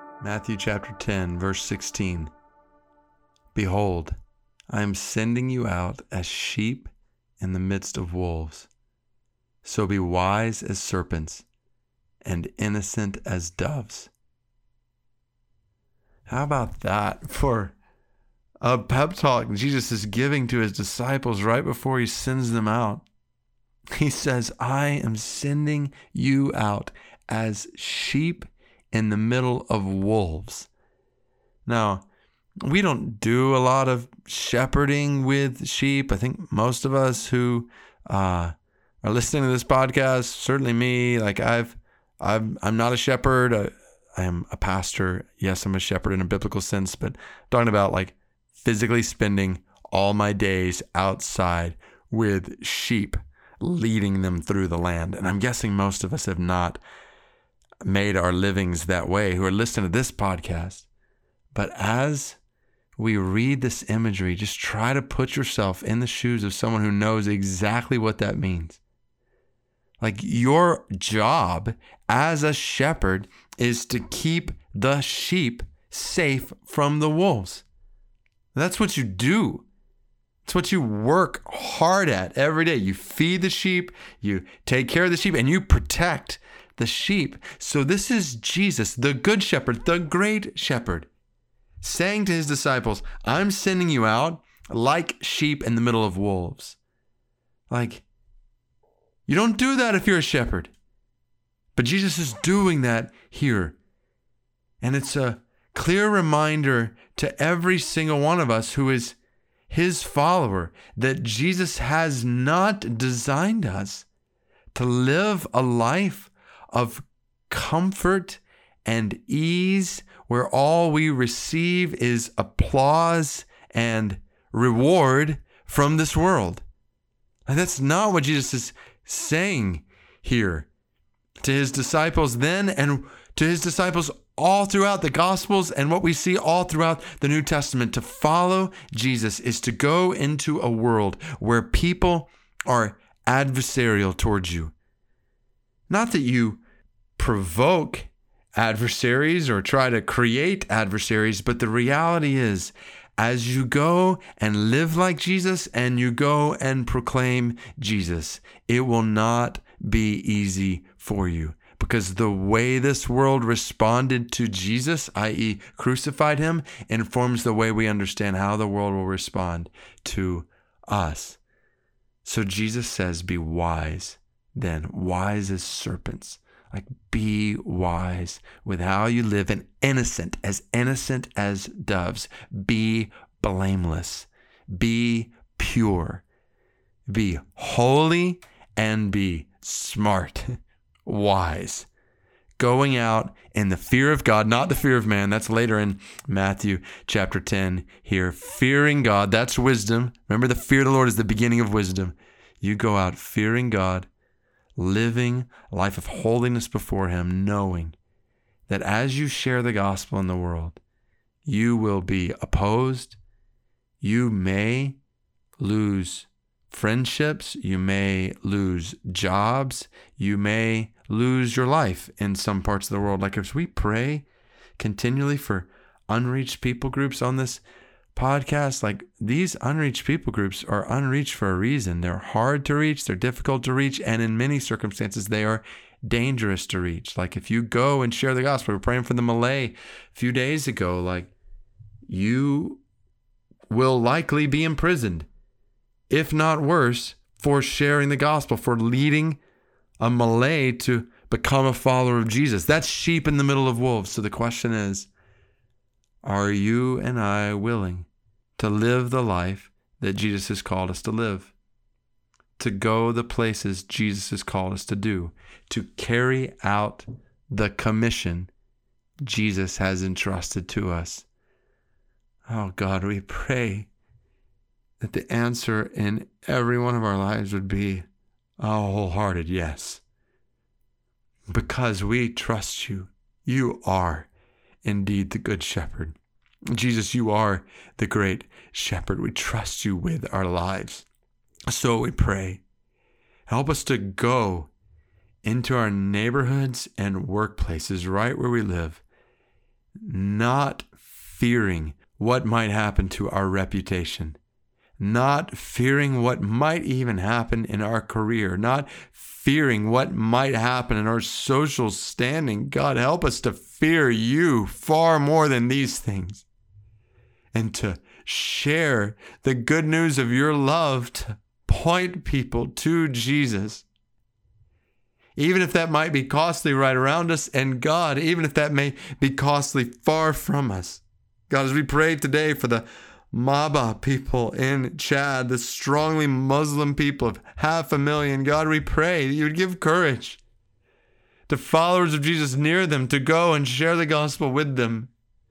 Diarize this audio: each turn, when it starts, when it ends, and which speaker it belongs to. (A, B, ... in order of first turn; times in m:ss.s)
0:00.2-0:02.3 A
0:03.5-0:04.2 A
0:04.7-0:08.7 A
0:09.6-0:11.5 A
0:12.2-0:14.1 A
0:16.3-0:17.8 A
0:18.6-0:23.1 A
0:24.0-0:30.7 A
0:31.7-0:32.1 A
0:32.6-0:56.8 A
0:57.8-1:00.9 A
1:01.5-1:02.4 A
1:03.0-1:08.8 A
1:10.0-1:17.6 A
1:18.6-1:19.7 A
1:20.4-1:31.1 A
1:31.8-1:36.8 A
1:37.7-1:38.0 A
1:39.3-1:40.7 A
1:41.8-1:43.8 A
1:44.8-1:49.2 A
1:49.7-1:54.1 A
1:54.7-2:06.6 A
2:07.5-2:10.7 A
2:11.4-2:24.7 A
2:25.9-2:26.6 A
2:27.2-2:51.4 A
2:52.2-3:06.2 A
3:07.1-3:10.5 A
3:11.0-3:11.9 A
3:12.6-3:24.1 A
3:24.8-3:28.0 A
3:28.7-3:30.8 A
3:31.4-3:33.2 A
3:34.0-3:35.0 A
3:35.6-3:44.3 A
3:44.8-3:47.6 A
3:48.2-4:01.3 A
4:02.1-4:02.8 A
4:03.7-4:05.3 A
4:06.1-4:09.4 A
4:10.0-4:15.1 A
4:16.2-4:21.5 A
4:22.6-4:28.5 A
4:29.2-4:31.3 A
4:32.5-4:33.9 A
4:35.0-4:38.0 A
4:38.6-4:40.0 A
4:41.5-4:44.3 A
4:44.8-4:46.2 A
4:46.7-4:51.1 A
4:51.7-4:52.6 A
4:53.5-4:54.7 A
4:55.4-4:59.0 A
5:00.0-5:04.4 A
5:05.0-5:16.5 A
5:17.5-5:23.9 A
5:25.4-5:40.4 A
5:41.5-5:45.1 A